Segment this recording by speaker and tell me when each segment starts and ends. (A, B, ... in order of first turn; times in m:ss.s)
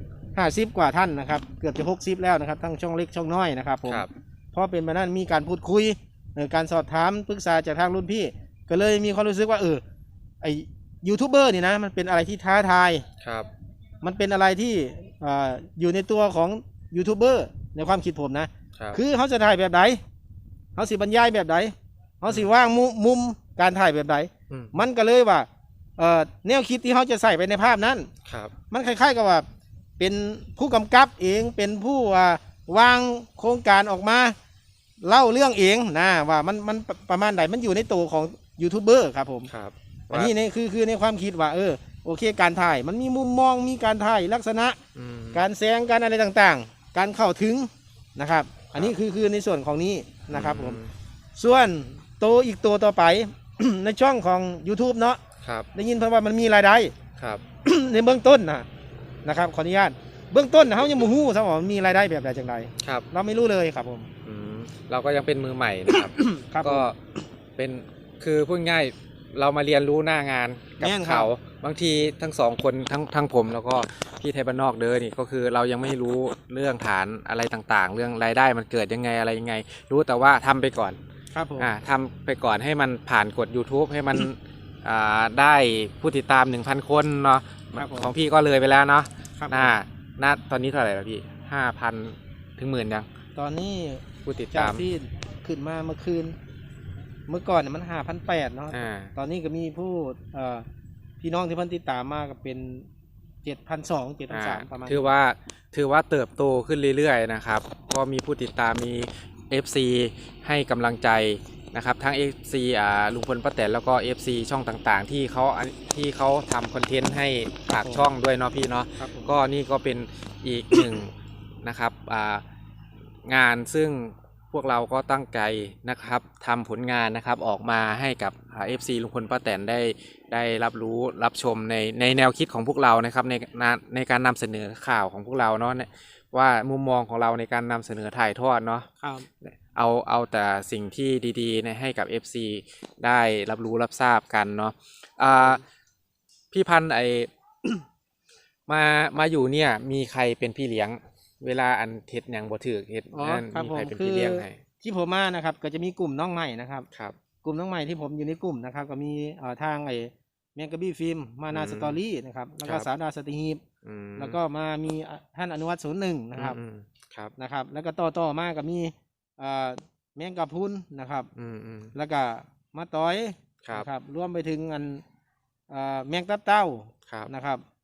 0:00.3-0:09.8 A
0:03.8-0:04.1 B
0:10.4-0:13.0 A
0:13.2-0:13.5 B
0:14.0-0:20.0 A
0:20.8-0:28.1 A
0:28.2-0:28.5 B
0:28.7-0:29.4 A
0:30.0-0:34.4 A
0:35.0-0:39.5 A
0:39.5-0:40.3 B
0:40.1-0:44.8 A
0:44.9-0:45.4 B
0:45.3-0:50.8 A
0:50.3-0:50.9 B
0:51.4-0:55.2 A
0:55.4-0:55.7 B
0:55.7-0:56.9 A
0:57.2-0:57.4 B
0:57.6-0:58.6 A
0:59.2-1:04.1 A
1:02.8-1:03.1 B
1:04.2-1:07.0 B
1:05.9-1:06.9 A
1:07.6-1:21.0 B
1:10.8-1:11.3 A
1:21.3-1:21.7 A
1:21.6-1:33.1 B
1:27.8-1:28.1 A
1:29.4-1:29.7 A
1:33.4-1:36.4 A
1:34.2-1:34.8 B
1:37.3-1:40.6 A
1:38.7-1:39.1 B
1:41.2-1:42.9 A
1:43.4-1:45.1 A
1:44.3-2:02.4 B
1:57.7-1:58.0 A
1:59.0-1:59.3 A
2:03.2-2:18.9 B
2:19.0-2:19.3 A
2:19.4-2:25.6 B
2:25.3-2:25.6 A
2:26.5-2:27.3 B
2:28.7-2:34.6 B
2:33.1-2:36.9 A
2:37.4-2:43.6 A
2:41.5-2:42.0 B
2:42.6-2:42.9 B
2:43.8-2:44.4 B
2:44.2-2:46.6 A
2:46.4-2:47.3 B
2:47.4-2:51.3 A
2:51.3-2:51.9 B
2:51.9-2:55.0 A
2:55.7-2:57.6 A